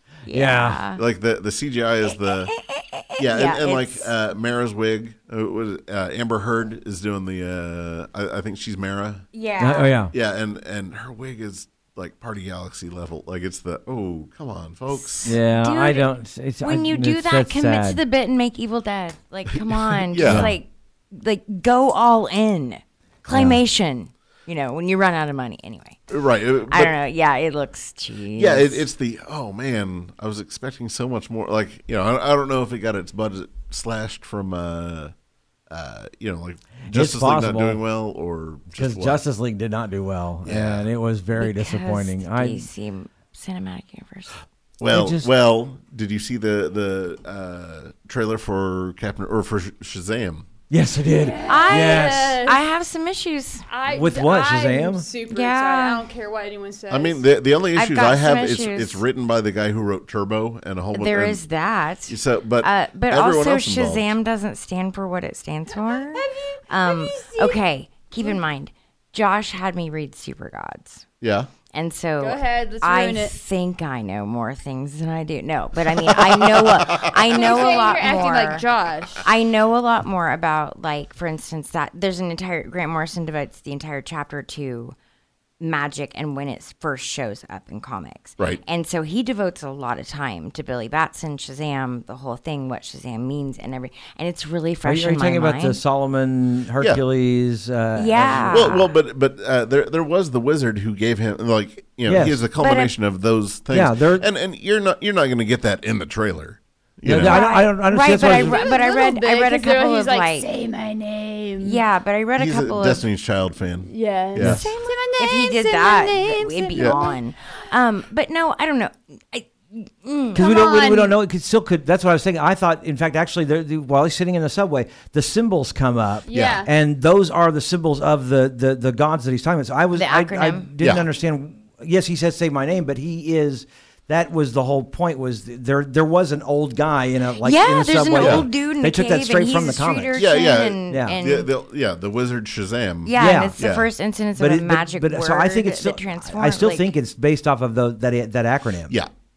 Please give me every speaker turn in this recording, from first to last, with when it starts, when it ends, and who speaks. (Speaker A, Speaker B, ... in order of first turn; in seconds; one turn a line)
Speaker A: 0.3-1.0
Speaker B: 0.3-0.8
Speaker C: 0.9-2.5
Speaker A: 2.1-4.1
Speaker C: 3.2-9.2
Speaker A: 9.3-9.9
Speaker B: 9.6-10.1
Speaker C: 10.1-15.4
Speaker A: 15.0-16.1
Speaker B: 15.2-18.0
Speaker A: 16.6-26.1
Speaker C: 19.9-20.5
Speaker B: 20.2-20.6
Speaker B: 23.3-23.6
Speaker C: 26.1-26.9
Speaker A: 26.7-28.8
Speaker C: 28.4-35.1
Speaker C: 35.7-39.2
Speaker B: 36.8-37.8
Speaker B: 38.7-42.7
Speaker C: 40.4-40.9
Speaker A: 41.4-44.4
Speaker C: 44.8-50.5
Speaker B: 44.9-45.3
Speaker B: 50.7-52.4
Speaker D: 51.2-52.6
Speaker A: 51.5-53.7
Speaker D: 53.7-57.2
Speaker B: 53.9-55.1
Speaker A: 55.3-56.0
Speaker C: 56.9-61.4
Speaker A: 57.7-59.0
Speaker A: 60.9-71.0
Speaker C: 62.1-64.2
Speaker D: 65.8-67.6
Speaker C: 71.2-71.5
Speaker A: 71.7-78.7
Speaker D: 72.2-73.3
Speaker C: 75.9-77.6
Speaker D: 77.3-79.3
Speaker A: 79.2-84.9
Speaker A: 85.6-95.8
Speaker B: 94.8-98.7
Speaker A: 97.9-98.9
Speaker C: 98.4-107.4
Speaker B: 102.0-102.4
Speaker A: 102.6-102.9
Speaker B: 103.7-104.2
Speaker B: 107.0-108.7
Speaker A: 107.1-110.5
Speaker D: 108.2-111.8
Speaker A: 111.6-113.0
Speaker C: 112.4-114.6
Speaker D: 113.8-117.2
Speaker B: 114.4-114.7
Speaker A: 114.4-120.8
Speaker C: 116.8-117.0
Speaker B: 120.3-140.2
Speaker D: 120.3-121.2
Speaker D: 126.2-126.7
Speaker C: 126.3-126.7
Speaker A: 129.9-130.7
Speaker C: 130.8-131.1
Speaker A: 137.4-141.5
Speaker C: 138.2-138.4
Speaker C: 140.1-143.9
Speaker B: 140.9-141.2
Speaker A: 143.0-146.9
Speaker B: 143.2-143.6
Speaker B: 144.4-148.9